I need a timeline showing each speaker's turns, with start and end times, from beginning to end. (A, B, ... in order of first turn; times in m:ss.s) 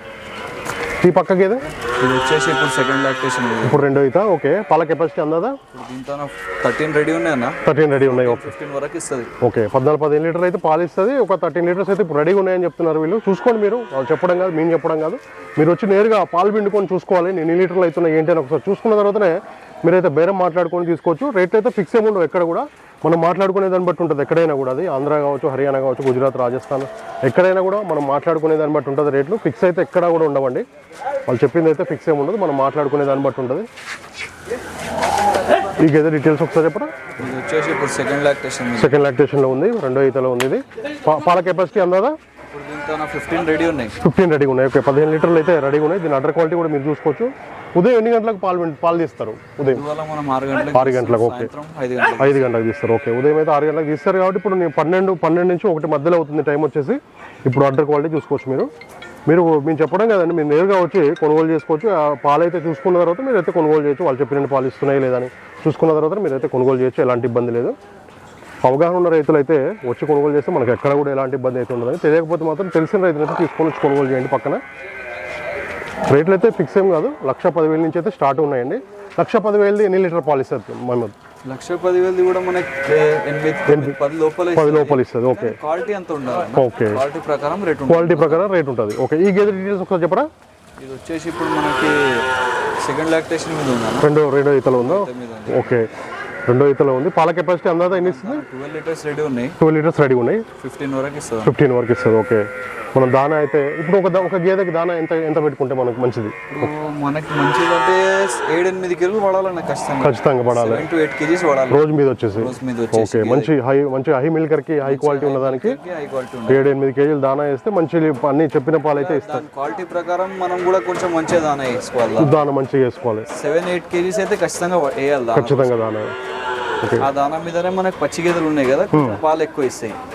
0:01.0-0:01.7 A
0:01.8-0:03.9 B
0:03.6-0:05.6 A
0:05.7-0:09.3 B
0:07.6-0:08.5 A
0:09.4-0:30.6 A
0:31.3-0:33.7 A
0:35.8-0:36.9 A
0:37.2-0:39.1 B
0:38.8-0:42.1 A
0:42.5-0:44.0 B
0:44.0-0:49.8 A
0:49.7-0:52.5 B
0:50.7-0:51.5 A
0:52.2-0:58.7 A
0:59.3-1:07.7 A
1:08.6-1:14.6 A
1:16.1-1:21.1 A
1:21.4-1:28.5 B
1:23.7-1:24.0 A
1:24.5-1:25.6 A
1:26.5-1:27.0 A
1:27.9-1:30.3 A
1:30.8-1:34.1 B
1:34.0-1:35.9 A
1:34.7-1:35.8 B
1:36.5-1:38.4 A
1:37.8-1:39.6 B
1:39.6-1:40.4 A
1:40.6-1:41.5 B
1:41.4-1:42.4 A
1:42.9-1:46.7 A
1:46.5-1:53.5 B
1:50.0-1:50.9 A
1:51.7-1:55.8 A
1:54.8-1:56.6 B
1:56.5-1:59.4 A
1:58.9-2:02.3 B
2:02.2-2:03.3 A
2:03.3-2:05.8 B
2:05.3-2:06.1 A
2:06.8-2:07.1 A
2:07.0-2:10.0 B
2:08.9-2:09.2 A